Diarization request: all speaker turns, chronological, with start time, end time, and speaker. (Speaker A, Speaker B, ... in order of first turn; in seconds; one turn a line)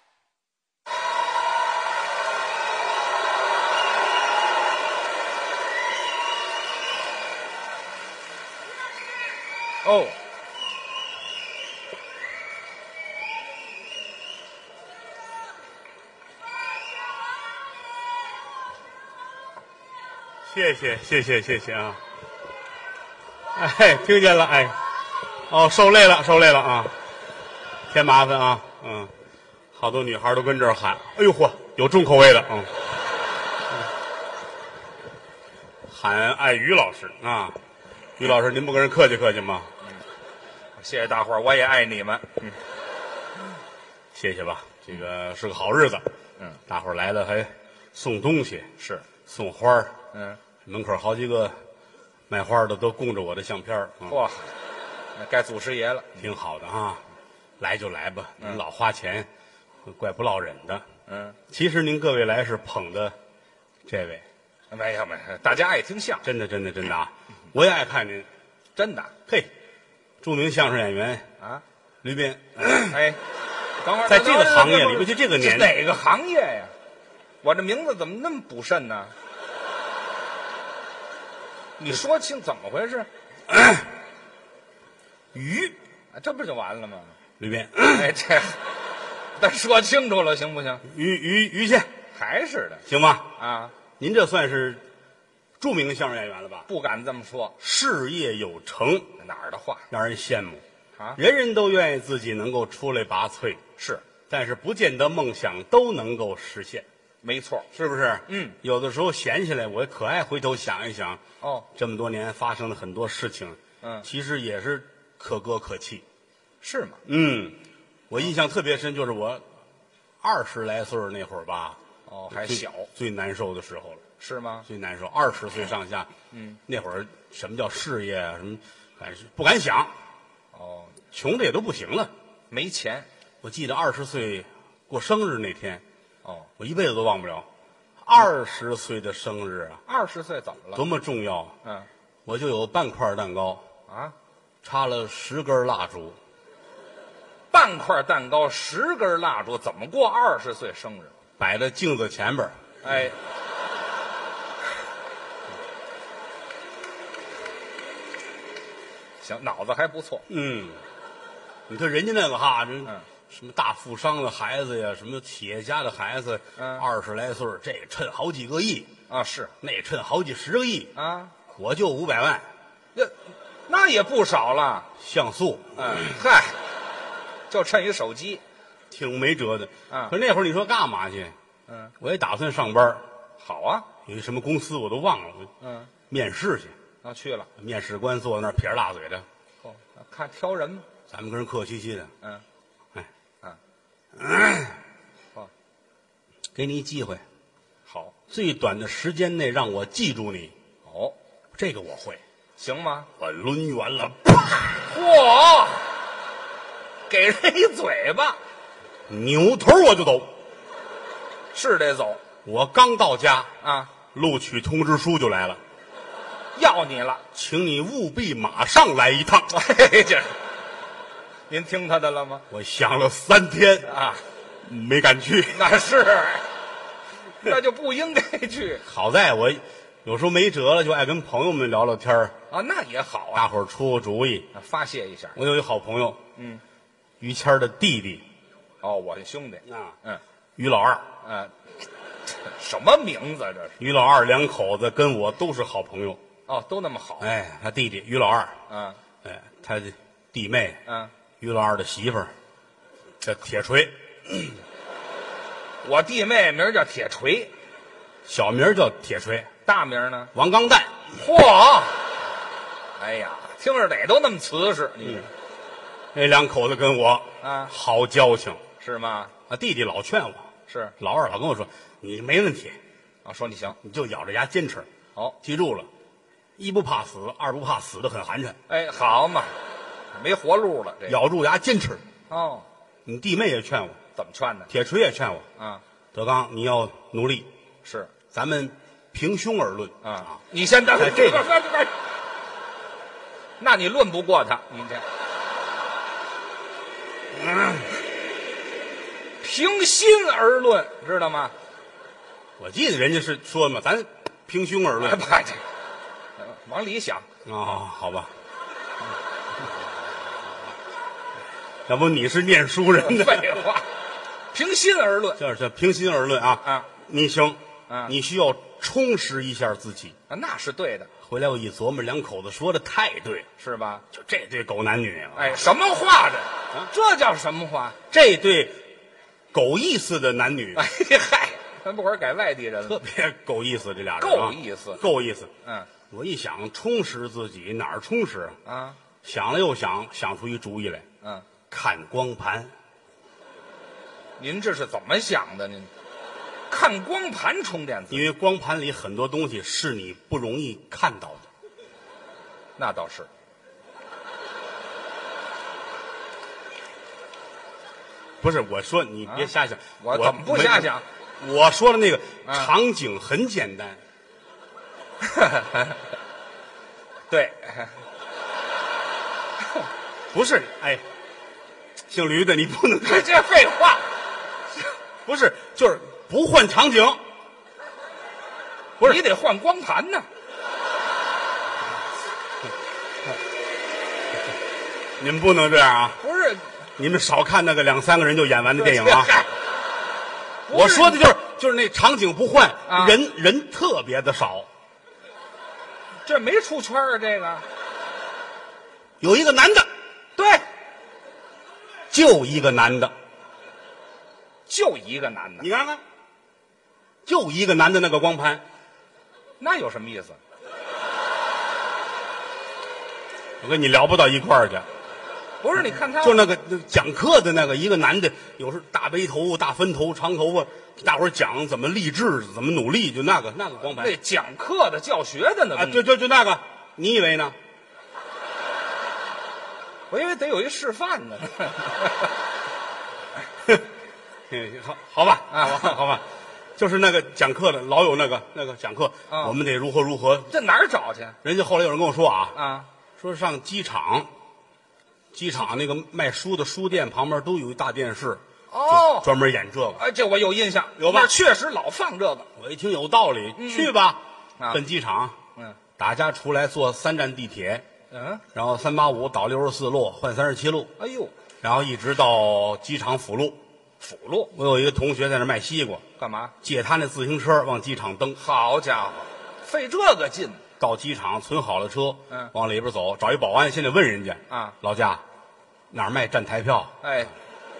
Speaker A: 9.8-10.1
Speaker B: 20.4-22.0
Speaker B: 23.5-24.8
Speaker B: 25.5-26.9
Speaker B: 27.9-29.1
Speaker B: 29.7-32.7
Speaker B: 35.9-37.6
Speaker B: 38.2-39.7
Speaker A: 40.8-42.6
Speaker B: 44.1-46.1
Speaker B: 46.7-48.7
Speaker A: 48.8-49.0
Speaker B: 49.2-49.9
Speaker A: 50.1-50.4
Speaker B: 50.6-51.5
Speaker B: 52.3-54.2
Speaker A: 54.1-54.5
Speaker A: 55.1-56.3
Speaker B: 56.2-57.0
Speaker B: 57.6-59.3
Speaker B: 59.9-60.8
Speaker A: 61.1-61.4
Speaker B: 61.5-63.1
Speaker B: 63.9-64.2
Speaker A: 64.7-66.3
Speaker B: 66.2-68.3
Speaker A: 68.8-69.1
Speaker B: 70.2-71.2
Speaker B: 72.0-73.0
Speaker A: 72.8-73.2
Speaker A: 73.8-76.7
Speaker B: 74.0-75.8
Speaker A: 77.4-79.1
Speaker A: 81.8-83.1
Speaker B: 83.5-83.9
Speaker B: 85.3-85.8
Speaker A: 86.1-87.1
Speaker B: 87.4-88.1
Speaker A: 87.9-88.6
Speaker A: 89.4-90.8
Speaker B: 90.8-91.9
Speaker A: 92.1-92.8
Speaker B: 92.9-93.3
Speaker A: 93.4-93.7
Speaker B: 94.0-94.8
Speaker B: 95.6-96.7
Speaker A: 96.7-97.5
Speaker B: 97.6-99.1
Speaker A: 99.2-99.8
Speaker B: 99.9-100.6
Speaker B: 101.2-103.6
Speaker A: 103.8-104.0
Speaker B: 104.3-106.8
Speaker A: 107.2-107.7
Speaker B: 107.7-111.2
Speaker A: 108.3-108.6
Speaker A: 111.4-111.7
Speaker B: 111.7-116.0
Speaker A: 113.8-114.1
Speaker A: 116.6-117.0
Speaker B: 117.0-117.6
Speaker B: 118.1-119.4
Speaker B: 120.2-121.8
Speaker A: 122.1-122.9
Speaker B: 122.3-124.0
Speaker A: 124.2-124.7
Speaker B: 124.7-126.1
Speaker A: 126.3-126.6
Speaker B: 126.7-129.9
Speaker A: 130.5-131.0
Speaker B: 131.1-132.1
Speaker A: 132.5-133.1
Speaker B: 133.4-135.8
Speaker A: 136.2-136.5
Speaker B: 136.6-137.5
Speaker B: 138.0-139.8
Speaker A: 139.9-140.8
Speaker B: 140.7-141.5
Speaker B: 142.2-143.6
Speaker A: 143.9-144.1
Speaker B: 144.6-146.2
Speaker A: 147.5-151.1
Speaker B: 151.4-152.6
Speaker A: 152.8-153.1
Speaker A: 159.2-160.2
Speaker B: 160.3-160.8
Speaker B: 161.7-168.9
Speaker A: 166.6-166.8
Speaker A: 169.1-169.5
Speaker B: 169.6-170.9
Speaker A: 170.9-171.3
Speaker B: 171.5-172.4
Speaker A: 173.7-174.9
Speaker B: 175.0-176.2
Speaker A: 175.8-176.6
Speaker A: 177.5-178.4
Speaker B: 178.9-181.3
Speaker A: 179.9-180.1
Speaker A: 181.7-181.9
Speaker B: 182.0-183.0
Speaker A: 183.4-183.9
Speaker B: 184.0-185.5
Speaker A: 185.6-185.9
Speaker B: 186.1-186.7
Speaker A: 187.0-187.5
Speaker B: 187.6-189.2
Speaker A: 189.6-190.8
Speaker B: 191.1-192.1
Speaker B: 194.2-194.8
Speaker B: 196.5-197.2
Speaker A: 197.9-198.1
Speaker B: 198.3-200.5
Speaker A: 200.8-201.2
Speaker B: 201.5-202.2
Speaker A: 202.6-203.1
Speaker B: 203.2-204.9
Speaker A: 204.8-205.8
Speaker A: 207.1-208.4
Speaker B: 209.1-210.3
Speaker A: 211.5-212.2
Speaker B: 212.4-213.5
Speaker A: 213.6-213.9
Speaker B: 214.1-215.6
Speaker A: 216.6-217.2
Speaker B: 217.3-219.5
Speaker A: 219.5-220.3
Speaker A: 221.5-222.4
Speaker B: 222.5-223.9
Speaker A: 223.8-224.2
Speaker B: 224.6-225.6
Speaker A: 225.5-226.4
Speaker A: 227.4-228.8
Speaker B: 228.8-232.3
Speaker A: 232.5-233.5
Speaker B: 233.3-234.5
Speaker A: 234.5-235.4
Speaker B: 235.3-236.2
Speaker A: 236.3-236.6
Speaker B: 237.2-238.2
Speaker A: 238.8-240.2
Speaker B: 240.6-241.1
Speaker A: 241.2-241.5
Speaker A: 242.4-243.8
Speaker B: 243.8-246.2
Speaker A: 246.5-247.3
Speaker B: 247.2-248.5
Speaker A: 248.7-249.0
Speaker B: 249.2-250.8
Speaker A: 250.8-251.1
Speaker B: 251.4-252.3
Speaker B: 253.2-254.6
Speaker A: 255.8-257.5
Speaker B: 258.2-259.5
Speaker A: 259.6-260.3
Speaker B: 260.3-261.0
Speaker A: 261.1-262.0
Speaker A: 263.0-265.3
Speaker B: 266.1-268.6
Speaker A: 267.4-267.7
Speaker A: 268.8-269.3
Speaker B: 269.5-272.8
Speaker A: 270.7-270.9
Speaker A: 273.2-273.8
Speaker B: 273.8-274.9
Speaker B: 275.4-275.9
Speaker B: 276.6-278.6
Speaker A: 278.7-279.5
Speaker A: 280.1-281.2
Speaker B: 281.1-282.0
Speaker A: 282.3-282.6
Speaker B: 283.1-284.0
Speaker A: 284.1-284.7
Speaker B: 284.7-285.4
Speaker B: 286.1-287.5
Speaker A: 287.8-288.1
Speaker B: 288.3-290.0
Speaker A: 290.0-291.9
Speaker B: 290.9-291.5
Speaker A: 293.6-295.0
Speaker B: 297.4-297.8
Speaker A: 299.4-301.5
Speaker B: 302.6-305.2
Speaker A: 305.0-305.6
Speaker A: 306.4-307.2
Speaker B: 307.4-308.3
Speaker B: 311.9-313.6
Speaker A: 313.0-313.8
Speaker A: 314.5-315.4
Speaker B: 315.4-320.1
Speaker A: 317.9-318.1
Speaker A: 320.3-321.1
Speaker B: 321.2-323.5
Speaker A: 323.6-324.0
Speaker B: 324.1-325.7
Speaker A: 325.3-328.0
Speaker B: 328.1-328.8
Speaker B: 329.5-330.8
Speaker A: 330.7-333.0
Speaker B: 332.8-335.5
Speaker A: 334.2-335.0
Speaker A: 335.6-335.9
Speaker B: 336.1-338.6
Speaker A: 338.6-339.0
Speaker B: 339.2-341.1
Speaker B: 341.7-342.7
Speaker A: 344.4-345.9
Speaker A: 346.7-348.3
Speaker B: 348.1-351.5
Speaker A: 352.8-353.3
Speaker B: 358.4-364.0
Speaker A: 359.3-361.0
Speaker A: 362.4-362.7
Speaker A: 365.2-365.9
Speaker A: 367.3-367.9
Speaker B: 370.3-371.0
Speaker B: 372.1-373.3
Speaker A: 373.0-374.0
Speaker B: 375.2-377.2
Speaker A: 379.0-380.3
Speaker B: 385.2-386.2
Speaker A: 386.2-386.6
Speaker B: 387.0-389.3
Speaker A: 388.7-389.5
Speaker A: 390.7-391.2
Speaker B: 390.7-394.7
Speaker A: 392.9-393.2
Speaker A: 396.2-397.6
Speaker B: 399.2-399.9
Speaker A: 400.4-400.6
Speaker B: 402.1-403.1
Speaker A: 404.7-405.7
Speaker B: 405.6-406.0
Speaker B: 407.2-408.6
Speaker A: 409.6-410.4
Speaker B: 413.6-414.8
Speaker A: 415.6-416.5
Speaker B: 416.1-424.2
Speaker A: 423.9-426.0
Speaker B: 425.7-427.6
Speaker A: 430.1-432.3
Speaker B: 434.5-436.2
Speaker A: 435.5-436.0
Speaker B: 436.8-440.5
Speaker A: 439.3-439.6
Speaker A: 440.5-441.4
Speaker B: 441.4-442.6
Speaker A: 442.5-442.9
Speaker B: 443.2-444.3
Speaker B: 445.3-450.0
Speaker A: 448.7-449.3
Speaker A: 449.9-452.5
Speaker B: 451.0-451.3
Speaker B: 452.6-455.4
Speaker A: 453.6-453.9
Speaker B: 456.0-457.8
Speaker A: 458.1-458.4
Speaker B: 458.5-460.9
Speaker A: 461.0-461.3
Speaker B: 461.6-463.6
Speaker A: 464.0-464.5
Speaker B: 464.5-466.0
Speaker A: 466.2-466.5
Speaker B: 466.6-468.4
Speaker A: 468.4-470.6
Speaker B: 470.8-475.2
Speaker A: 474.5-474.8
Speaker B: 475.9-476.9
Speaker A: 477.0-477.3